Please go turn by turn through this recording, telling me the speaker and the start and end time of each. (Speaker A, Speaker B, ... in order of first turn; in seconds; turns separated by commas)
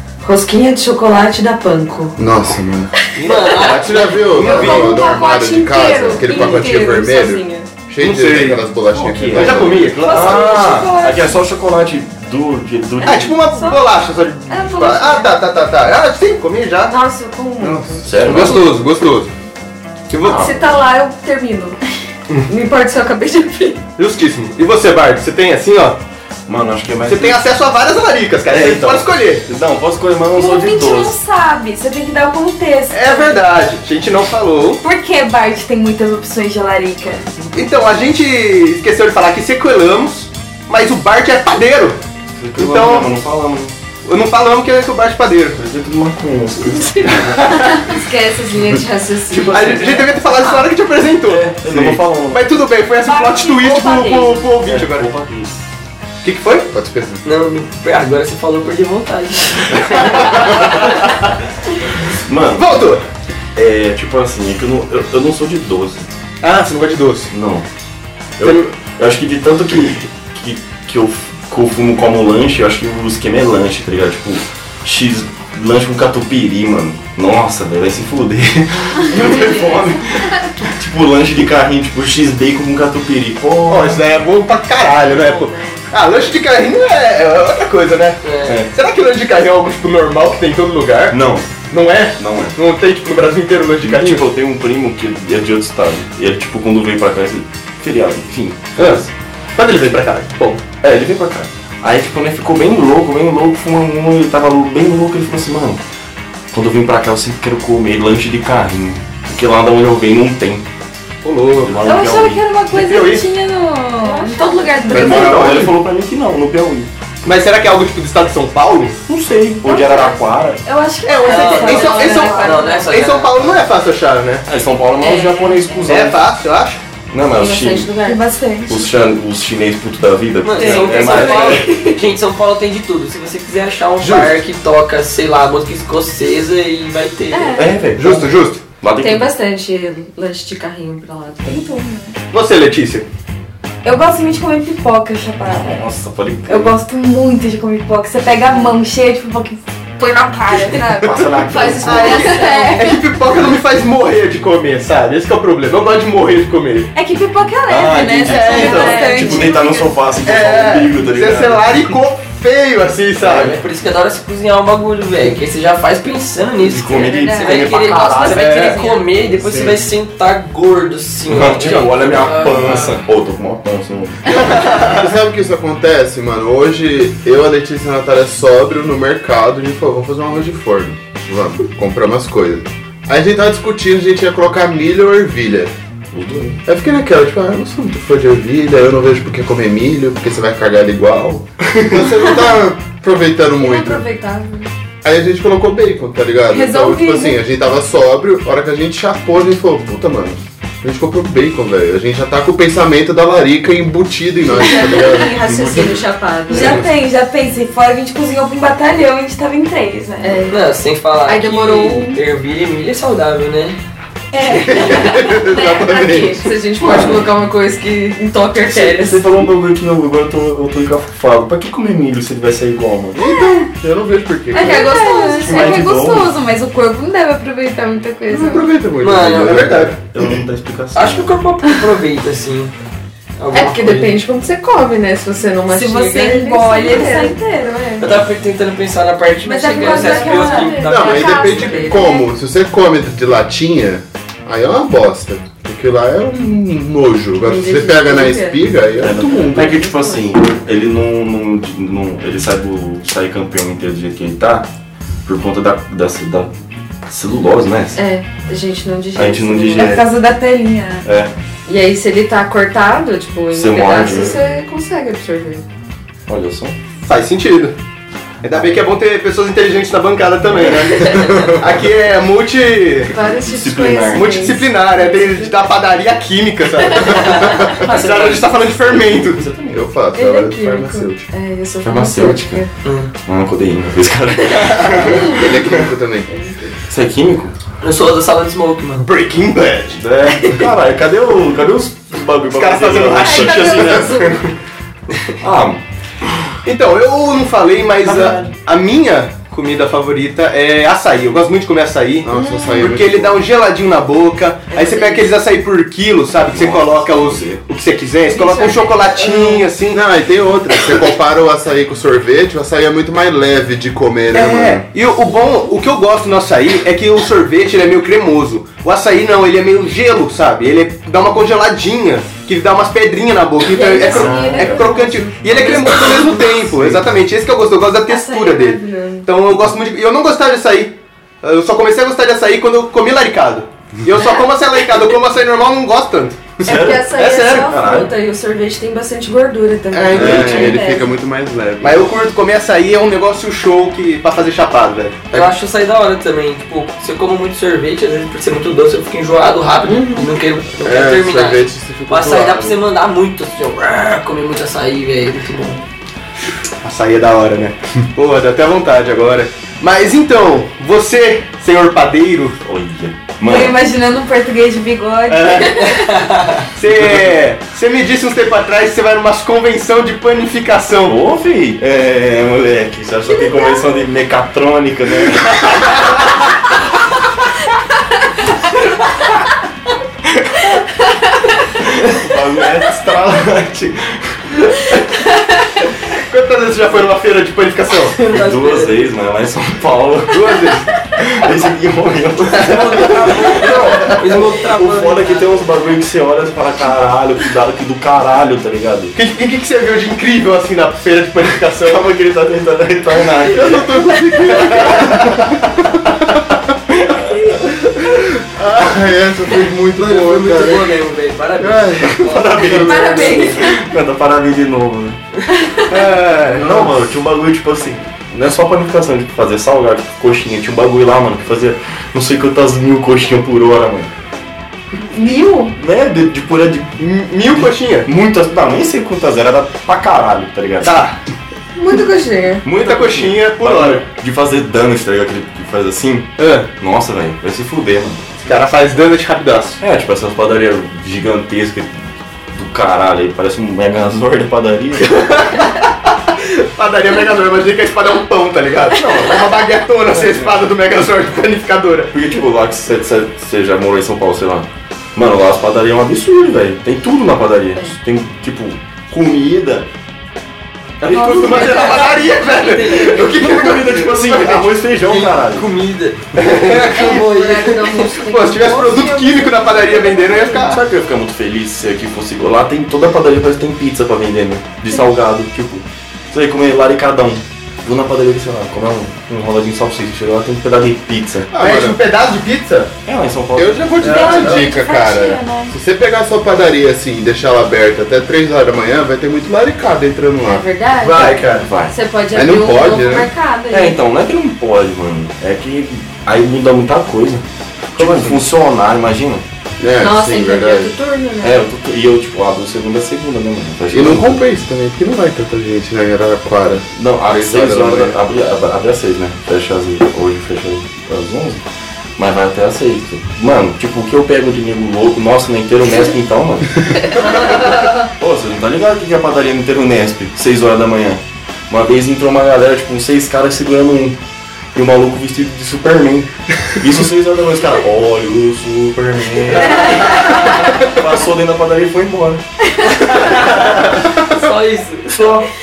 Speaker A: 0.2-2.2, Speaker B: 2.2-2.9, Speaker C: 3.1-4.9, Speaker D: 3.2-4.3, Speaker B: 3.6-10.0, Speaker A: 4.4-7.7, Speaker E: 4.9-6.5, Speaker C: 8.0-8.6, Speaker F: 8.9-13.4, Speaker C: 9.3-10.5, Speaker E: 10.0-11.4, Speaker C: 13.0-16.9, Speaker E: 13.4-13.8, Speaker A: 14.5-15.2, Speaker A: 16.9-18.6, Speaker F: 18.0-18.7, Speaker C: 18.1-19.3, Speaker C: 20.1-20.5, Speaker A: 20.2-21.8, Speaker F: 20.2-20.7, Speaker A: 22.5-23.8, Speaker C: 24.0-26.0, Speaker F: 26.5-27.4, Speaker C: 27.1-29.4, Speaker F: 28.5-31.1, Speaker E: 30.3-33.4, Speaker C: 32.9-34.8, Speaker E: 34.8-37.2, Speaker C: 37.5-42.0, Speaker F: 42.4-43.7, Speaker C: 42.5-43.1, Speaker C: 44.0-45.6, Speaker F: 45.5-47.7, Speaker C: 47.4-47.8, Speaker A: 47.4-50.6, Speaker C: 49.4-55.1, Speaker F: 51.3-52.6, Speaker E: 53.1-54.5, Speaker A: 53.6-54.3, Speaker F: 54.6-55.6, Speaker C: 56.2-56.7, Speaker B: 56.7-57.2, Speaker D: 57.2-60.7, Speaker F: 62.1-62.7, Speaker C: 62.5-63.0, Speaker F: 63.5-66.1, Speaker C: 66.4-67.3, Speaker F: 67.3-67.6, Speaker F: 68.4-84.0, Speaker C: 68.4-68.7, Speaker C: 83.7-91.2, Speaker A: 85.1-85.8, Speaker D: 88.2-88.6, Speaker F: 88.4-88.7, Speaker F: 91.1-91.5, Speaker C: 91.7-94.2, Speaker F: 92.2-92.6, Speaker F: 93.8-99.1, Speaker C: 98.8-99.0, Speaker C: 99.6-100.6, Speaker F: 100.8-105.8, Speaker F: 106.5-110.7, Speaker C: 111.2-111.8, Speaker F: 111.6-112.4, Speaker E: 111.8-115.6, Speaker C: 112.7-113.2, Speaker A: 114.0-115.0, Speaker F: 114.9-116.9, Speaker C: 115.0-115.7, Speaker C: 117.2-119.0, Speaker F: 119.1-120.6, Speaker E: 119.6-123.0, Speaker C: 121.0-124.4, Speaker D: 121.2-123.6, Speaker A: 121.5-122.7, Speaker F: 124.5-126.2, Speaker A: 125.0-125.6, Speaker C: 125.8-126.8, Speaker F: 127.1-127.9, Speaker A: 127.3-128.2, Speaker E: 128.0-128.9, Speaker F: 128.7-131.8, Speaker D: 130.4-137.6, Speaker E: 130.5-131.9, Speaker C: 134.0-134.3, Speaker E: 137.3-137.7, Speaker F: 137.5-139.3, Speaker C: 137.9-138.6, Speaker A: 138.9-141.6, Speaker E: 141.4-142.2, Speaker C: 142.3-143.1, Speaker E: 143.8-145.9, Speaker F: 145.4-146.8, Speaker E: 146.5-153.0, Speaker F: 150.6-152.2, Speaker A: 151.1-152.9, Speaker C: 151.8-156.9, Speaker E: 156.9-160.0, Speaker F: 157.7-161.9, Speaker C: 158.3-159.0, Speaker A: 158.8-159.5, Speaker C: 160.2-163.5, Speaker D: 163.2-173.0, Speaker F: 163.2-163.5, Speaker F: 166.6-168.8, Speaker E: 166.9-169.3, Speaker C: 168.3-168.8, Speaker F: 171.3-174.8, Speaker C: 174.3-175.0, Speaker B: 174.8-185.7, Speaker F: 186.1-186.6, Speaker B: 186.6-194.0, Speaker A: 193.6-194.7, Speaker B: 195.0-205.4, Speaker E: 196.5-197.4, Speaker A: 204.4-206.8, Speaker F: 205.4-206.0, Speaker E: 206.5-210.5, Speaker A: 210.2-210.6, Speaker D: 210.5-213.8, Speaker A: 211.2-212.2, Speaker E: 214.3-214.9, Speaker A: 214.4-219.3, Speaker B: 214.6-216.5, Speaker F: 218.6-223.2, Speaker B: 223.1-225.1, Speaker E: 224.5-228.7, Speaker A: 224.5-225.8, Speaker F: 225.4-226.3, Speaker B: 228.3-230.0, Speaker D: 229.0-229.8, Speaker C: 229.4-229.9, Speaker F: 229.4-231.4, Speaker D: 230.9-232.7, Speaker D: 233.4-234.2, Speaker A: 233.5-238.0, Speaker E: 235.7-238.0, Speaker D: 238.0-241.9, Speaker E: 239.4-242.2, Speaker A: 239.7-242.3, Speaker B: 240.8-249.8, Speaker A: 247.4-248.6, Speaker F: 249.0-254.7, Speaker A: 249.2-250.3, Speaker F: 255.2-256.5, Speaker F: 257.1-258.0, Speaker A: 257.9-260.0, Speaker F: 259.1-260.1, Speaker E: 259.8-261.1, Speaker F: 261.0-261.3, Speaker A: 261.6-265.6, Speaker F: 263.5-264.4, Speaker F: 266.3-266.8, Speaker C: 267.0-267.8, Speaker C: 268.4-273.1, Speaker F: 270.6-271.4, Speaker A: 273.1-275.5, Speaker F: 273.2-274.6, Speaker C: 274.1-279.4, Speaker A: 277.0-277.7, Speaker D: 277.1-278.4, Speaker F: 277.7-279.9, Speaker B: 279.7-281.2, Speaker A: 280.1-282.7, Speaker F: 281.8-282.7, Speaker D: 282.8-283.1, Speaker F: 283.2-285.8, Speaker B: 285.1-286.3, Speaker A: 286.3-286.7, Speaker F: 286.9-287.5, Speaker D: 287.8-289.1, Speaker C: 289.0-290.0, Speaker F: 289.9-294.4, Speaker C: 292.5-294.2, Speaker A: 293.2-294.4, Speaker F: 295.4-295.8, Speaker C: 296.6-310.0, Speaker F: 298.0-298.5, Speaker B: 302.2-303.4, Speaker A: 302.3-302.8, Speaker A: 304.7-305.3, Speaker F: 306.4-307.6, Speaker A: 308.3-309.6, Speaker B: 309.9-314.9, Speaker C: 314.3-337.8, Speaker A: 323.7-326.4, Speaker E: 323.8-326.5, Speaker F: 324.1-324.8, Speaker E: 328.1-328.9, Speaker A: 328.2-329.2, Speaker F: 336.6-338.1, Speaker A: 336.6-341.1, Speaker C: 339.9-340.8, Speaker B: 340.1-342.1, Speaker F: 340.1-340.6, Speaker C: 341.8-345.4, Speaker D: 345.3-355.8, Speaker A: 349.8-350.3, Speaker B: 350.8-352.8, Speaker C: 356.8-362.6, Speaker F: 362.6-363.8, Speaker E: 363.4-366.1, Speaker C: 365.3-365.9, Speaker D: 365.9-366.6, Speaker C: 366.7-371.2, Speaker F: 366.8-367.4, Speaker F: 371.0-376.3, Speaker F: 380.3-380.6, Speaker F: 381.7-384.4, Speaker C: 386.1-388.1, Speaker D: 388.2-388.9, Speaker F: 388.3-399.1, Speaker C: 390.3-390.9, Speaker D: 392.5-395.7, Speaker C: 399.1-402.1, Speaker F: 401.8-405.6, Speaker B: 403.4-405.4, Speaker C: 404.7-405.0, Speaker F: 406.9-407.8, Speaker B: 408.0-410.9, Speaker D: 409.9-413.4, Speaker B: 411.6-413.2, Speaker F: 412.2-415.2, Speaker A: 412.7-413.8, Speaker C: 415.9-416.9, Speaker F: 416.4-424.1, Speaker A: 425.2-425.7, Speaker F: 425.8-426.9, Speaker C: 427.0-428.1, Speaker F: 427.6-431.0, Speaker C: 430.8-431.2, Speaker A: 431.8-432.6, Speaker F: 432.6-438.2, Speaker C: 432.7-434.0, Speaker C: 436.4-436.7, Speaker C: 438.4-439.8, Speaker F: 439.8-445.3, Speaker C: 445.0-445.8, Speaker C: 446.4-452.1, Speaker F: 448.9-449.5, Speaker F: 450.1-450.5, Speaker F: 452.1-459.9, Speaker C: 461.0-465.3, Speaker E: 461.1-462.2, Speaker D: 461.5-463.6, Speaker F: 463.1-465.7, Speaker D: 465.2-468.1, Speaker C: 466.3-467.1, Speaker A: 466.8-470.8, Speaker C: 468.2-470.8, Speaker F: 470.6-481.5, Speaker B: 481.5-482.0, Speaker C: 481.5-482.9, Speaker F: 483.0-484.5, Speaker B: 483.6-490.6, Speaker E: 484.0-485.7, Speaker C: 484.0-484.6, Speaker A: 490.4-494.0, Speaker C: 491.0-491.7, Speaker F: 491.4-491.9, Speaker B: 492.3-493.3, Speaker F: 493.7-499.4, Speaker C: 498.0-498.4, Speaker B: 499.8-500.9, Speaker A: 500.0-501.7, Speaker F: 501.4-504.4, Speaker B: 503.9-508.2, Speaker F: 506.9-511.6, Speaker F: 512.2-524.2, Speaker F: 524.7-532.4, Speaker D: 533.0-535.4, Speaker C: 533.3-534.0, Speaker F: 535.2-535.4